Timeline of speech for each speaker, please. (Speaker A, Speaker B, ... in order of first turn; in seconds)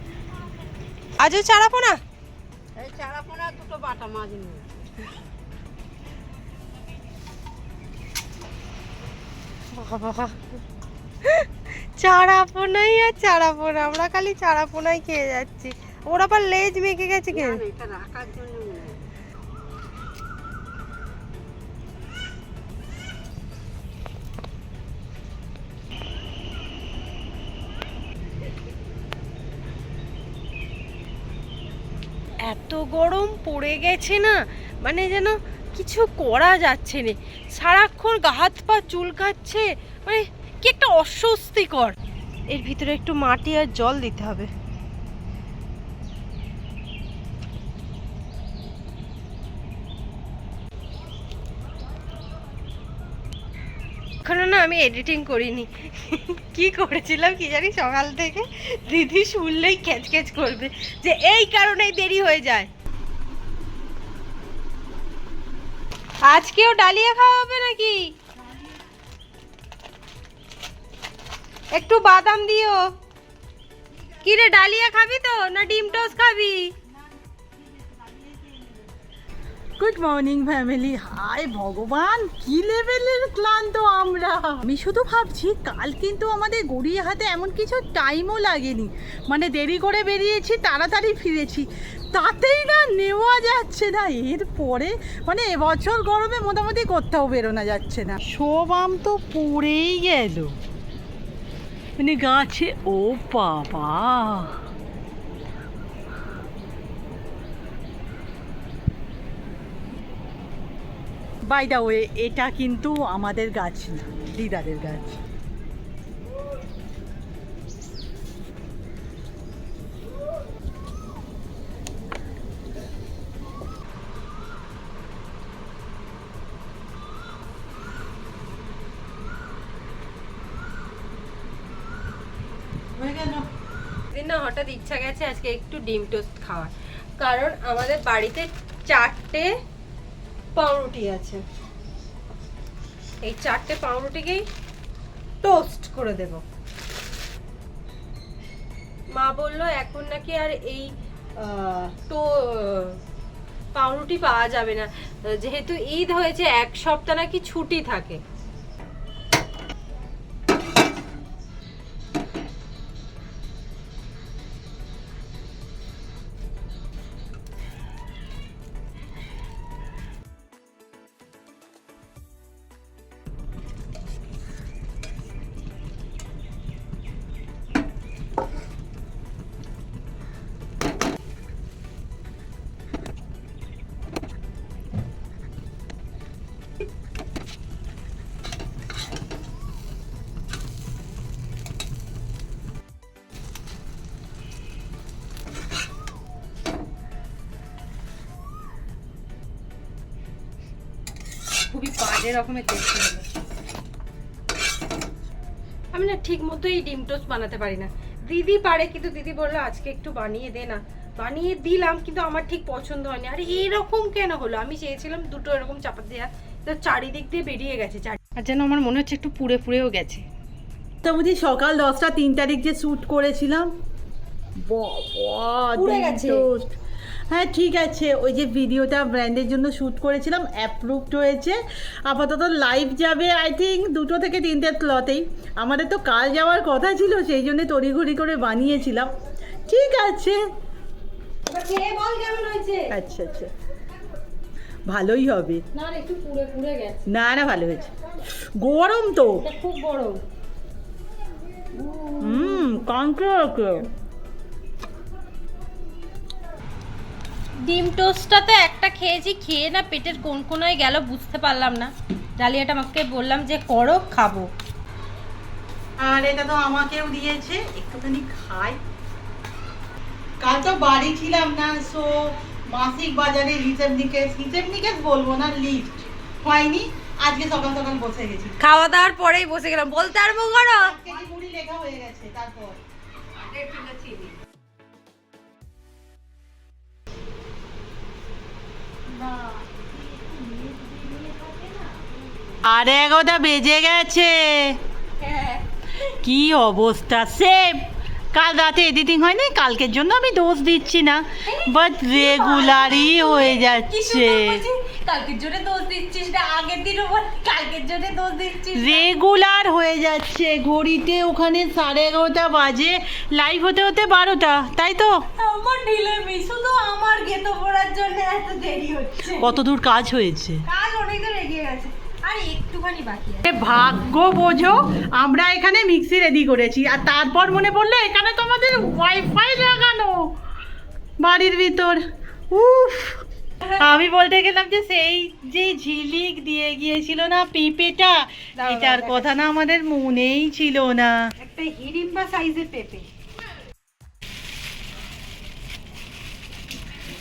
Speaker A: 1.2-2.0, 9.7-10.4, 11.2-17.6, 32.4-42.0, 42.5-44.5, 54.2-62.7, 66.2-68.1, 71.7-72.9, 74.2-76.7, 134.1-139.5, 140.6-141.4, 143.2-144.4, 145.4-146.4, 149.2-153.0, 153.7-158.2, 201.7-203.3, 205.9-220.2, 225.7-226.5, 241.5-242.9, 245.7-247.1, 249.4-250.2, 251.7-252.8, 257.6-264.5, 278.6-281.0, 283.4-284.3, 289.3-292.2, 295.2-295.6, 301.4-309.1, 315.4-319.5, 320.6-323.5, 338.6-339.3, 341.4-343.1
Speaker B: 2.8-5.0, 17.3-19.0
Speaker C: 75.9-76.1, 77.4-78.8, 79.8-100.6, 102.0-104.6, 111.5-115.2, 132.9-133.5, 221.0-223.7, 224.6-226.8, 227.3-239.1, 239.7-240.4, 242.9-243.5, 244.9-245.6, 247.1-247.9, 248.4-249.4, 252.2-253.9, 266.0-268.8, 270.4-278.6, 280.8-282.8, 292.6-294.8, 296.2-304.6, 308.7-315.3, 319.3-320.6, 323.4-330.4, 331.2-333.2, 333.8-341.3